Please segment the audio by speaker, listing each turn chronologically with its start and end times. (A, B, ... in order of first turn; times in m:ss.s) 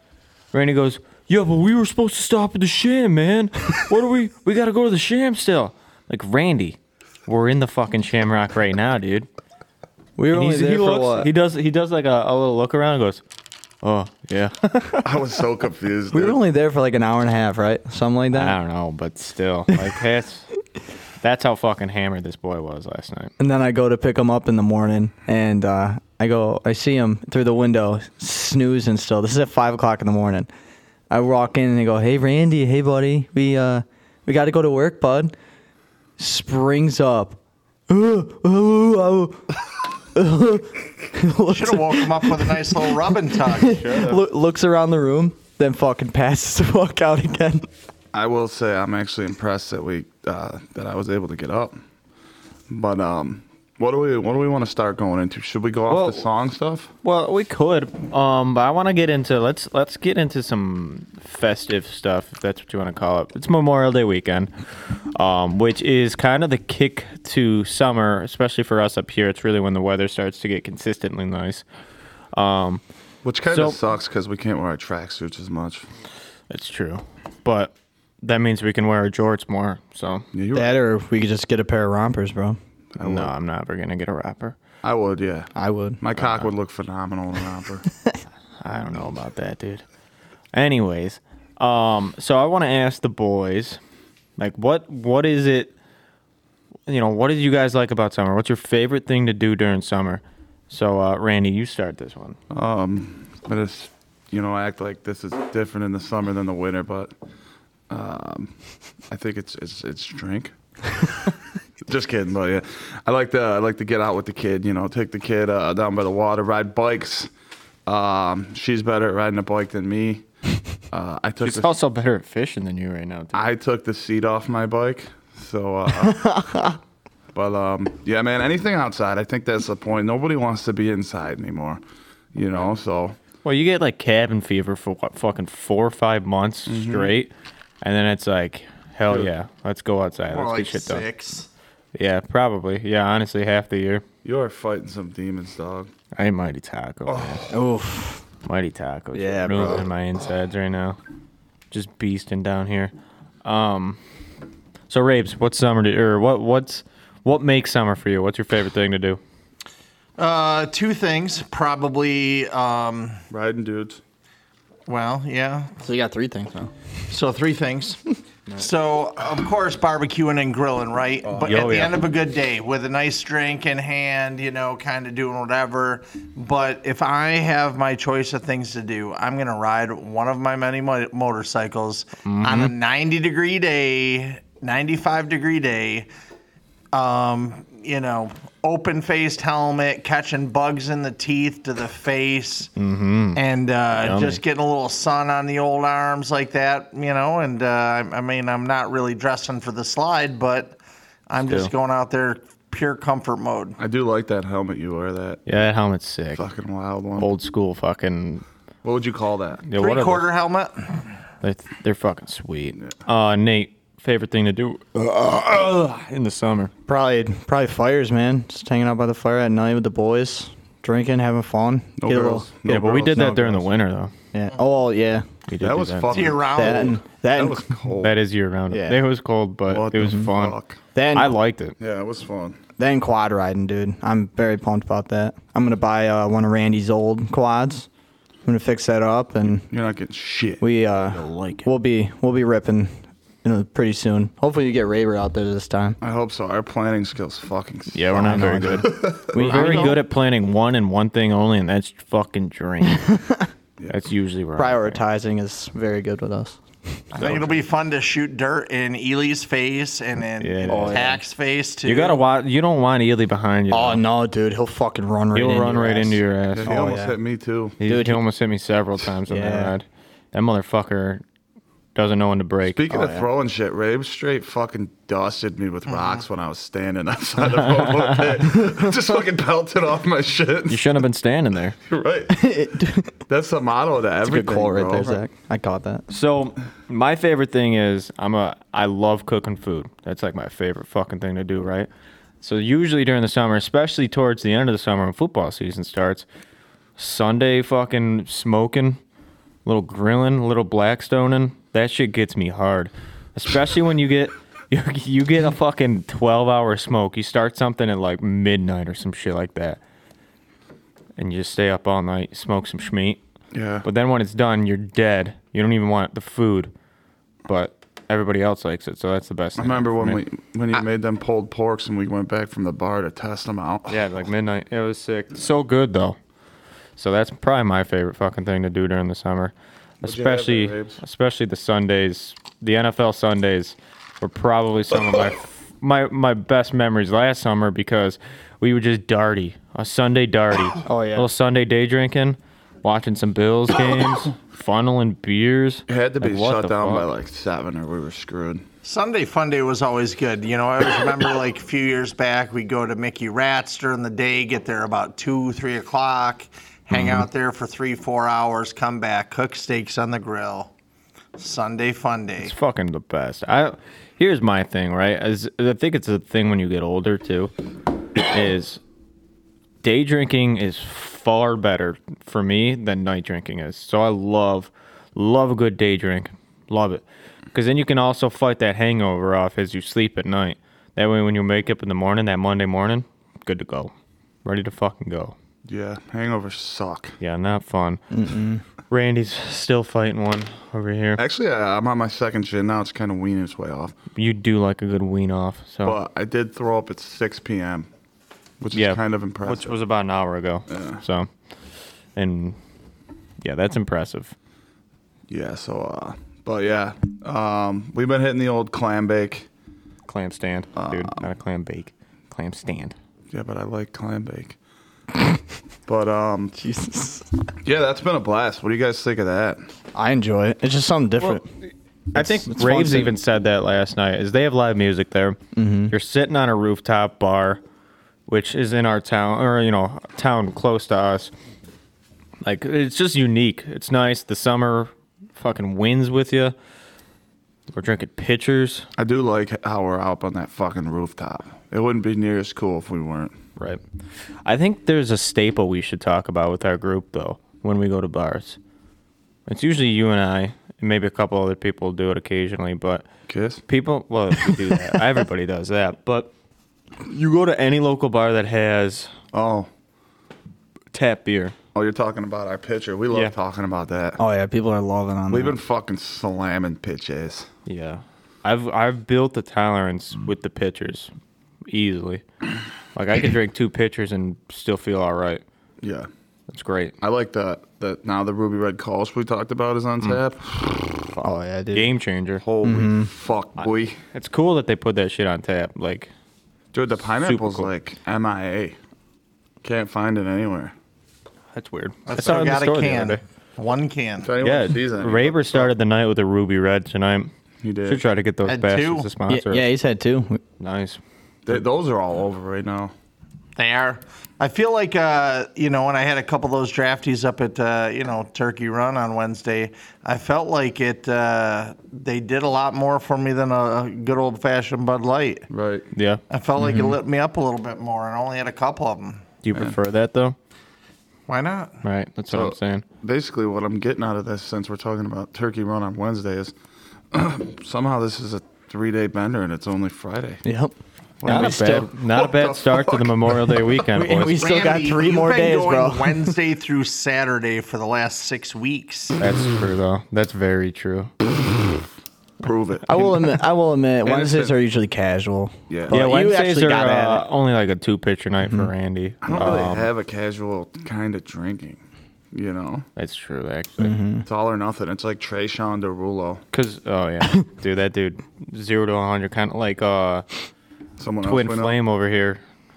0:00.5-0:09.3 A
0:10.2-0:11.3 B
0:10.3-0:13.2 A
0:13.8-0:15.1 A
0:15.0-0:16.4 C
0:16.1-0:18.6 B
0:18.3-0:20.5 A
0:21.2-0:23.3 A
0:23.4-0:30.5 B
0:31.1-0:35.3 B
0:36.2-0:39.5 B
0:40.1-0:47.7 B
0:41.5-0:43.8 D
0:43.6-0:44.2 A
0:48.1-0:51.8 C
0:52.7-0:56.9 C
0:55.9-0:56.3 A
0:57.0-1:04.5 A
1:05.1-1:11.6 A
1:12.3-1:12.8 A
1:13.2-1:15.9 C
1:13.5-1:13.8 A
1:16.5-1:20.3 A
1:20.3-1:20.7 C
1:20.5-1:22.6 B
1:23.0-1:23.3 C
1:23.0-1:24.6 A
1:24.8-1:25.5 C
1:25.6-1:26.0 B
1:26.0-1:27.9 C
1:26.2-1:26.5 A
1:28.6-1:29.8 A
1:30.5-1:33.8 A
1:34.4-1:35.7 A
1:36.9-1:42.4 A
1:42.5-1:47.1 C
1:47.9-1:48.5 C
1:49.1-1:50.5 C
1:51.9-1:57.3 C
1:57.9-2:00.2 C
2:00.9-2:01.7 C
2:01.4-2:03.5 A
2:03.3-2:06.4 C
2:06.0-2:06.8 B
2:07.3-2:11.8 C
2:12.3-2:13.2 C
2:13.4-2:21.0 A
2:16.7-2:17.1 C
2:20.3-2:21.5 D
2:22.0-2:24.0 A
2:24.2-2:25.9 C
2:26.2-2:27.4 A
2:27.1-2:27.6 C
2:27.5-2:28.2 B
2:28.4-2:31.0 A
2:29.2-2:29.9 B
2:31.7-2:32.9 A
2:33.4-2:34.0 A
2:34.9-2:39.2 A
2:40.2-2:43.2 D
2:43.3-2:44.0 C
2:44.9-2:45.8 D
2:45.8-2:46.7 B
2:47.1-3:06.1 D
2:51.2-2:51.8 C
2:51.4-2:52.0 A
3:02.2-3:02.7 A
3:06.9-3:12.7 D
3:12.8-3:13.4 A
3:13.4-3:23.8 D
3:14.0-3:14.4 A
3:21.4-3:21.7 A
3:23.8-3:25.4 C
3:25.5-3:26.4 A
3:26.4-3:27.3 C
3:27.2-3:28.4 A
3:28.8-3:29.6 C
3:29.6-3:30.2 A
3:29.7-3:31.1 D
3:31.4-3:36.7 A
3:36.9-3:43.7 B
3:42.0-3:43.3 C
3:42.7-3:44.1 A
3:44.3-3:45.3 B
3:45.5-3:46.4 A
3:45.6-3:48.1 C
3:46.1-3:47.0 D
3:46.6-3:47.8 B
3:48.0-3:50.6 A
3:48.7-3:49.0 B
3:49.7-3:50.8 C
3:51.0-3:51.4 B
3:51.1-3:51.8 A
3:51.8-3:52.6 C
3:52.8-3:57.9 B
3:58.4-3:59.7 B
3:59.7-4:00.6 C
4:00.6-4:06.0 B
4:01.1-4:01.7 A
4:06.0-4:10.0 C
4:07.9-4:13.2 A
4:08.1-4:10.0 B
4:13.1-4:13.4 B
4:13.9-4:15.0 A
4:14.6-4:16.6 B
4:17.1-4:22.2 D
4:17.2-4:17.5 A
4:20.4-4:21.2 A
4:20.7-4:21.2 B
4:21.8-4:24.0 A
4:23.7-4:27.2 B
4:25.4-4:26.9 A
4:26.5-4:27.8 C
4:27.8-4:31.2 A
4:27.8-4:28.2 B
4:29.3-4:29.8 B
4:32.0-4:32.8 A
4:32.6-4:40.9 C
4:32.9-4:33.3 B
4:37.4-4:38.6 A
4:40.7-4:41.8 A
4:41.9-4:42.5 C
4:42.3-4:43.2 B
4:43.3-4:45.2 C
4:44.2-4:46.0 B
4:46.1-4:51.9 A
4:52.4-4:56.2 A
4:57.0-4:59.0 A
4:59.6-5:09.8 A
5:11.2-5:13.2 A
5:13.5-5:13.8 C
5:13.8-5:16.7 A
5:17.5-5:20.2 A
5:19.6-5:24.0 C
5:23.9-5:26.2 A
5:27.0-5:47.1 A
5:30.0-5:31.0 C
5:40.8-5:41.3 B
5:45.9-5:48.6 C
5:48.8-6:00.7 D
5:56.9-5:57.3 A
6:01.4-6:02.5 D
6:02.4-6:07.5 A
6:08.2-6:08.8 A
6:09.8-6:23.9 A
6:24.4-6:25.4 A
6:25.7-6:27.2 C
6:27.2-6:28.0 A
6:28.1-6:28.6 B
6:28.9-6:31.2 A
6:31.2-6:34.0 C
6:34.2-6:36.0 A
6:35.8-6:37.9 C
6:38.6-6:39.8 C
6:38.7-6:41.3 A
6:40.7-6:41.0 C
6:42.2-6:42.6 A
6:43.4-6:44.3 A
6:45.3-6:49.5 C
6:50.1-6:52.9 A
6:50.8-6:51.2 C
6:53.3-6:54.6 C
6:55.9-6:56.6 C
6:56.6-6:57.3 B
6:57.6-6:59.6 C
7:00.0-7:01.5 B
7:02.1-7:05.4 A
7:02.2-7:03.2 B
7:05.6-7:06.0 B
7:05.9-7:07.6 A
7:08.3-7:11.3 A
7:12.4-7:16.6 A
7:17.7-7:18.9 A
7:19.0-7:23.4 C
7:24.4-7:28.6 A
7:29.5-7:33.0 A
7:33.3-7:33.6 C
7:33.7-7:36.3 A
7:37.0-7:39.1 A
7:39.3-7:39.7 C
7:40.9-7:41.6 A
7:41.7-7:44.2 C
7:44.2-7:45.6 B
7:45.3-7:47.5 C
7:47.7-7:51.1 A
7:51.7-7:52.2 A
7:53.0-7:55.4 A
7:55.8-7:56.1 C
7:56.5-7:57.0 A
7:57.0-8:00.9 C
8:01.2-8:01.9 B
8:01.7-8:02.4 A
8:02.4-8:04.0 C
8:02.6-8:03.1 B
8:04.1-8:06.1 A
8:06.7-8:08.8 C
8:07.0-8:07.7 A
8:09.6-8:10.7 C
8:11.5-8:13.2 A
8:12.1-8:14.3 D
8:14.2-8:15.7 C
8:14.4-8:17.3 A
8:17.6-8:18.0 C
8:17.9-8:19.6 A
8:18.4-8:19.1 D
8:19.3-8:20.4 B
8:20.6-8:21.0 A
8:21.5-8:22.9 C
8:23.6-8:35.5 D
8:35.5-8:35.9 C
8:35.9-8:36.2 A
8:36.3-8:39.2 D
8:36.6-8:36.9 B
8:39.4-8:40.4 A
8:41.3-8:41.8 D
8:41.8-8:42.8 A
8:42.3-8:46.5 C
8:47.1-8:50.4 C
8:50.4-8:51.9 B
8:51.2-8:53.6 C
8:51.2-8:54.4 A
8:53.9-8:56.4 B
8:54.3-8:59.2 D
8:59.2-9:01.1 A
9:02.4-9:03.4 C
9:02.9-9:07.2 B
9:04.0-9:04.6 C
9:05.7-9:06.0 C
9:05.9-9:09.9 A
9:08.4-9:08.7 B
9:09.2-9:11.8 C
9:12.3-9:12.9 C
9:13.0-9:14.0 A
9:13.8-9:14.3 B
9:14.3-9:16.4 C
9:16.5-9:20.3 A
9:21.0-9:21.8 C
9:21.2-9:22.4 A